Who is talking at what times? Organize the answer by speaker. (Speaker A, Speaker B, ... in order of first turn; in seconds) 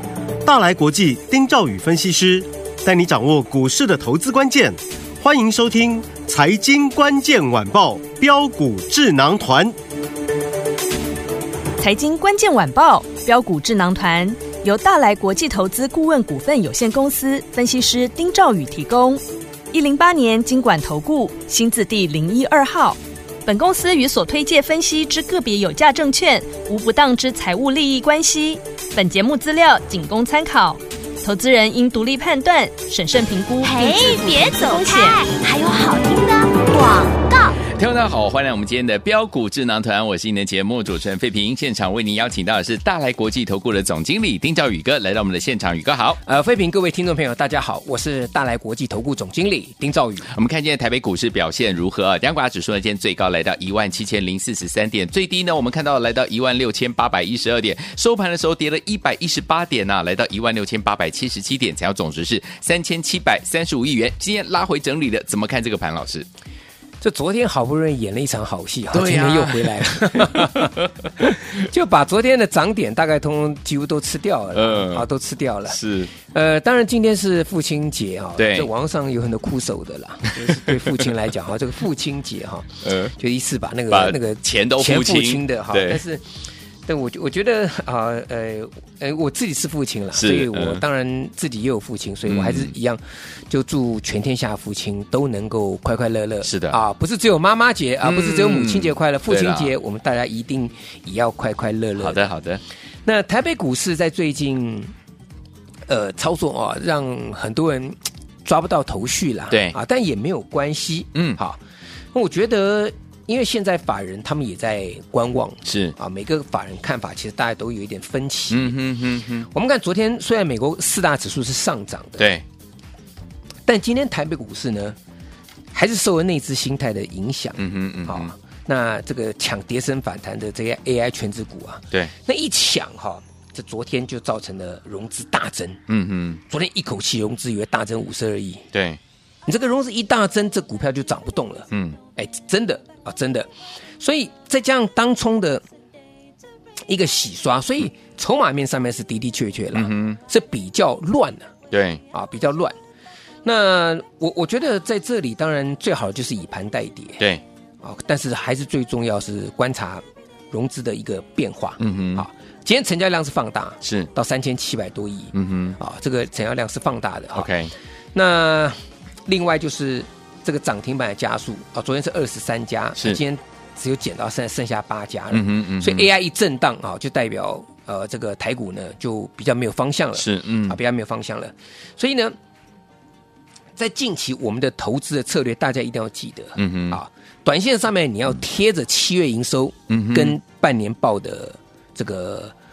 Speaker A: 0.4-9.8
Speaker B: 11.8-35.2
Speaker C: 33.6-37.6
Speaker D: 37.7-46.2, 50.3-66.3, 68.9-71.4, 74.5-75.0, 75.7-76.1, 78.4-78.7, 80.4-81.0, 82.8-83.1, 83.9-86.0, 90.1-90.8, 92.2-92.7, 96.4-96.8, 98.0-99.7, 102.0-102.6, 109.5-109.8, 115.6-116.0, 118.5-119.5, 122.2-122.4, 127.6-128.3, 135.9-136.4, 138.7-139.0, 141.7-142.0, 149.7-150.2, 151.7-152.0, 161.8-162.2, 163.8-164.1, 165.3-165.8, 167.3-167.7, 175.3-176.1, 180.2-180.8, 186.6-187.0, 189.9-190.4
Speaker E: 46.2-50.3, 67.0-86.2, 86.9-102.3, 103.0-104.9, 105.9-111.6, 112.1-118.8, 119.5-122.3, 123.7-125.0, 125.7-135.8, 136.5-138.7, 139.5-145.6, 146.9-151.5, 152.1-152.8, 153.4-157.2, 157.8-167.5, 168.1-182.4, 183.8-192.5